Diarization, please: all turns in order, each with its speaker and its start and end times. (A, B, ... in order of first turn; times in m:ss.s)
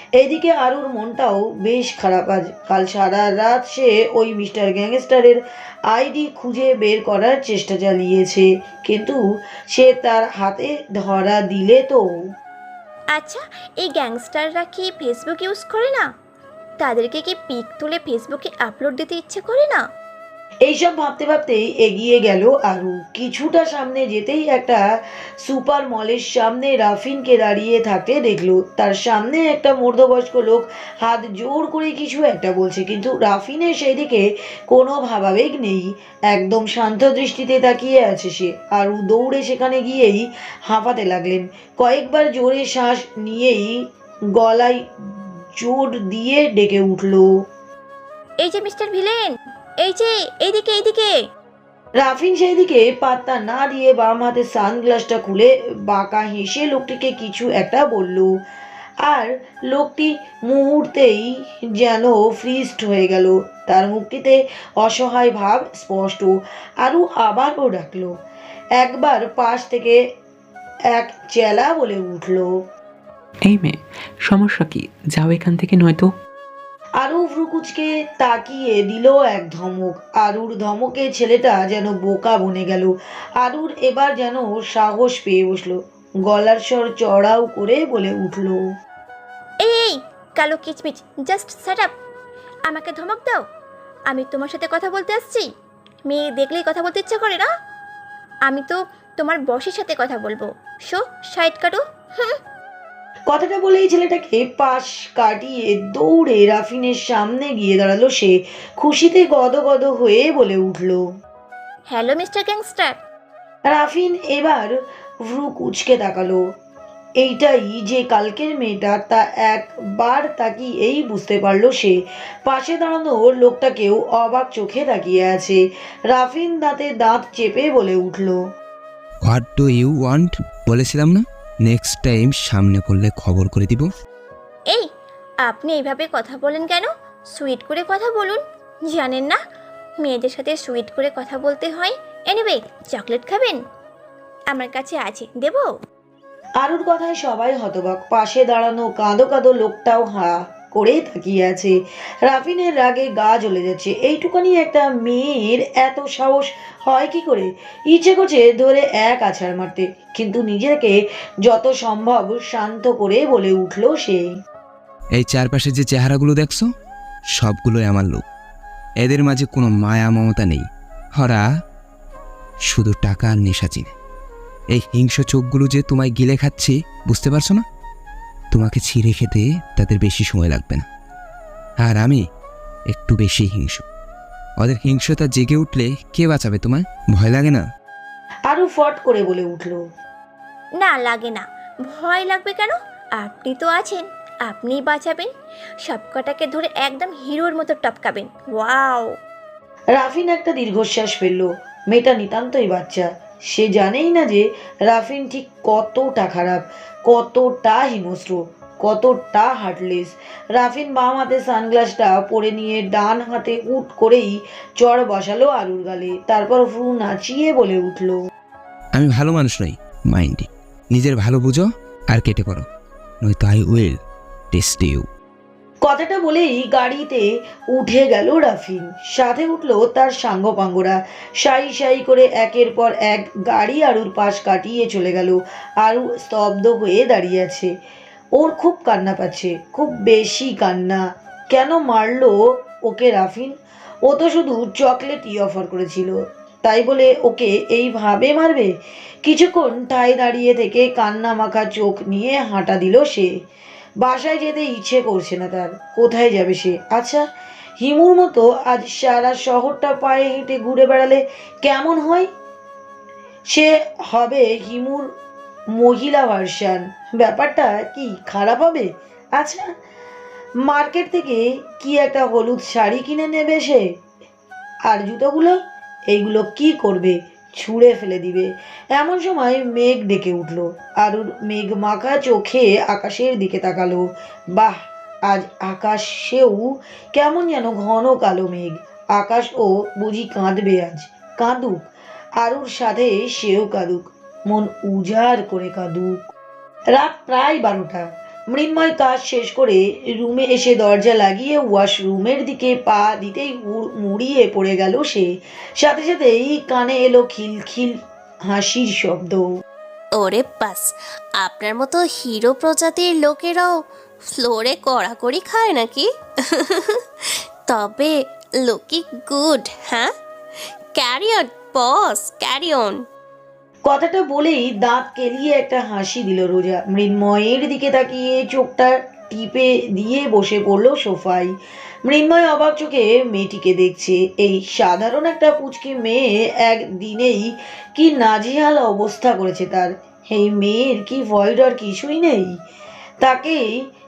0:00.2-0:09.2 A
0:09.7-0:12.0 A
0:13.1-0:16.1 B
0:16.8-0:19.8 B
0:20.7-0:24.8 A
0:25.4-0:43.8 A
0:44.4-0:47.3 A
0:48.4-0:51.2 B
0:52.0-0:58.3 A
0:59.0-1:08.1 A
1:08.8-1:10.0 A
1:10.9-1:12.5 A
1:13.4-1:16.1 C
1:17.0-1:28.6 A
1:29.6-1:31.9 B
1:32.7-1:33.4 B
1:34.1-1:35.5 B
1:36.1-1:37.5 B
1:38.5-1:42.4 B
1:43.3-1:51.0 A
1:51.9-1:53.0 B
1:53.7-1:56.4 A
1:57.2-2:08.4 A
2:09.3-2:13.9 D
2:15.4-2:19.4 B
2:20.0-2:23.6 B
2:24.5-2:25.7 B
2:26.6-2:44.2 A
2:45.2-2:46.6 D
2:47.4-2:48.2 D
2:49.0-2:50.6 D
2:51.2-2:51.4 D
2:52.7-2:53.9 D
2:54.7-2:57.6 D
2:58.5-3:00.8 D
3:01.8-3:02.2 D
3:02.9-3:03.8 D
3:04.6-3:07.6 D
3:08.5-3:09.8 A
3:10.8-3:15.3 B
3:15.8-3:19.1 B
3:20.0-3:38.2 A
3:39.0-3:42.6 D
3:43.2-3:44.0 D
3:44.5-3:45.1 D
3:45.8-3:57.7 A
3:58.4-4:08.7 A
4:09.2-4:13.3 A
4:14.0-4:17.3 A
4:17.8-4:22.3 A
4:23.5-4:25.1 A
4:25.7-4:29.7 A
4:30.6-4:33.8 A
4:34.9-4:44.8 A
4:45.3-4:51.9 A
4:52.4-4:56.2 A
4:56.9-5:09.4 A
5:10.2-5:13.7 E
5:14.3-5:17.0 E
5:17.7-5:20.1 E
5:21.0-5:23.0 E
5:23.9-5:31.5 A
5:32.1-5:42.5 A
5:43.2-5:43.7 A